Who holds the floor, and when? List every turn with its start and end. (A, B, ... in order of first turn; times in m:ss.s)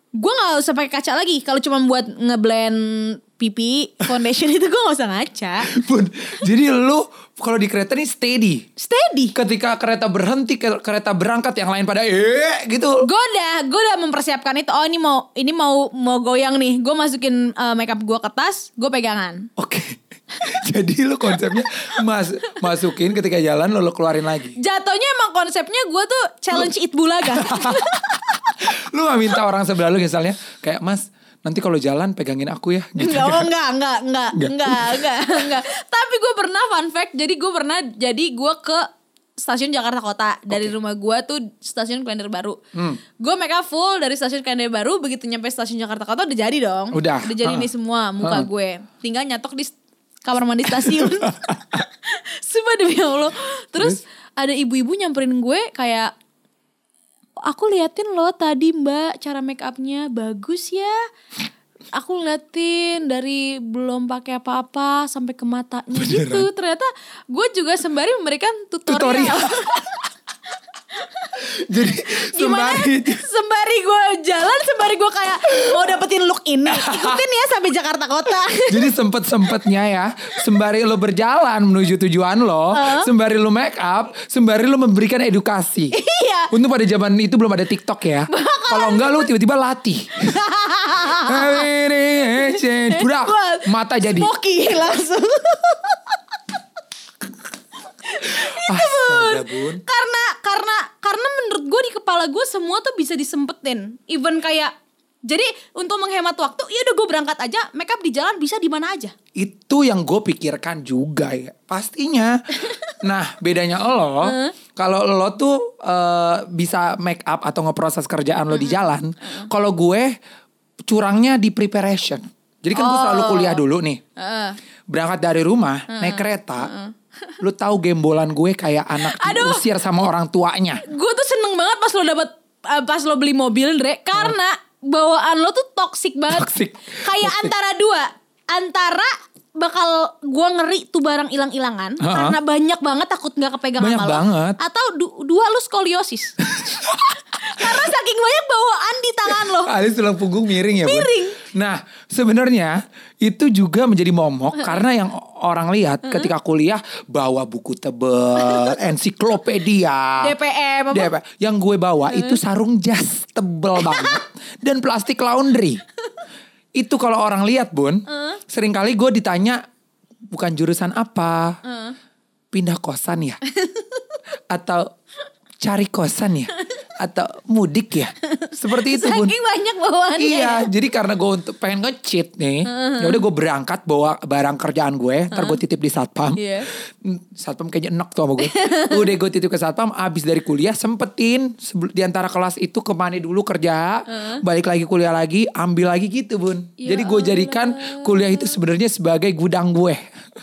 0:00.2-0:05.7 A
0:05.7-0:08.7 B
0:08.8-0:09.4 A
0:09.3-0:13.1 B
0:13.0-0:19.5 A
0:19.6-0:24.6 B
0:24.6-0:28.3 A
0:27.2-0:33.5 B
0:33.0-0:38.9 A
0:34.4-0:35.4 B
0:39.4-0:42.6 A
0:42.7-0:43.0 B
0:43.2-0:56.1 A
0:46.9-0:47.7 B
0:48.2-0:48.5 B
0:50.7-0:51.8 B
0:57.4-1:01.0 A
1:01.9-1:09.9 A
1:05.9-1:06.5 B
1:08.9-1:10.0 B
1:11.0-1:11.4 A
1:11.4-1:13.2 B
1:11.9-1:18.9 A
1:16.7-1:17.2 B
1:18.7-1:26.0 B
1:22.7-1:23.1 A
1:25.9-1:26.5 A
1:26.5-1:30.4 B
1:28.3-1:29.3 A
1:30.3-1:31.7 A
1:31.0-1:34.3 B
1:32.9-1:36.2 A
1:38.1-1:44.7 A
1:38.3-1:39.8 B
1:45.3-1:49.1 A
1:49.4-2:00.2 B
1:52.7-1:52.9 A
1:54.2-1:54.6 A
1:58.5-1:59.5 A
2:00.9-2:04.0 B
2:02.7-2:03.6 A
2:04.2-2:04.6 A
2:04.9-2:06.7 B
2:05.9-2:07.4 A
2:07.4-2:10.8 B
2:09.0-2:09.6 A
2:10.8-2:29.7 A
2:16.3-2:17.5 B
2:22.0-2:22.4 B
2:23.8-2:24.6 B
2:26.4-2:27.9 B
2:29.3-2:40.4 B
2:30.8-2:31.4 A
2:38.4-2:38.7 A
2:40.2-2:41.1 A
2:40.9-2:45.8 B
2:42.1-2:42.4 A
2:43.8-2:44.2 A
2:46.8-2:49.6 B
2:48.1-2:48.4 A
2:50.3-2:51.6 B
2:51.6-2:52.0 A
2:52.5-2:53.4 B
2:53.5-2:54.2 A
2:54.5-2:54.9 B
2:55.6-2:59.3 B
2:58.3-3:00.7 A
3:00.2-3:20.1 B
3:02.7-3:03.2 A
3:05.3-3:05.6 A
3:06.4-3:06.7 A
3:08.4-3:09.1 A
3:14.1-3:14.4 A
3:16.8-3:18.6 A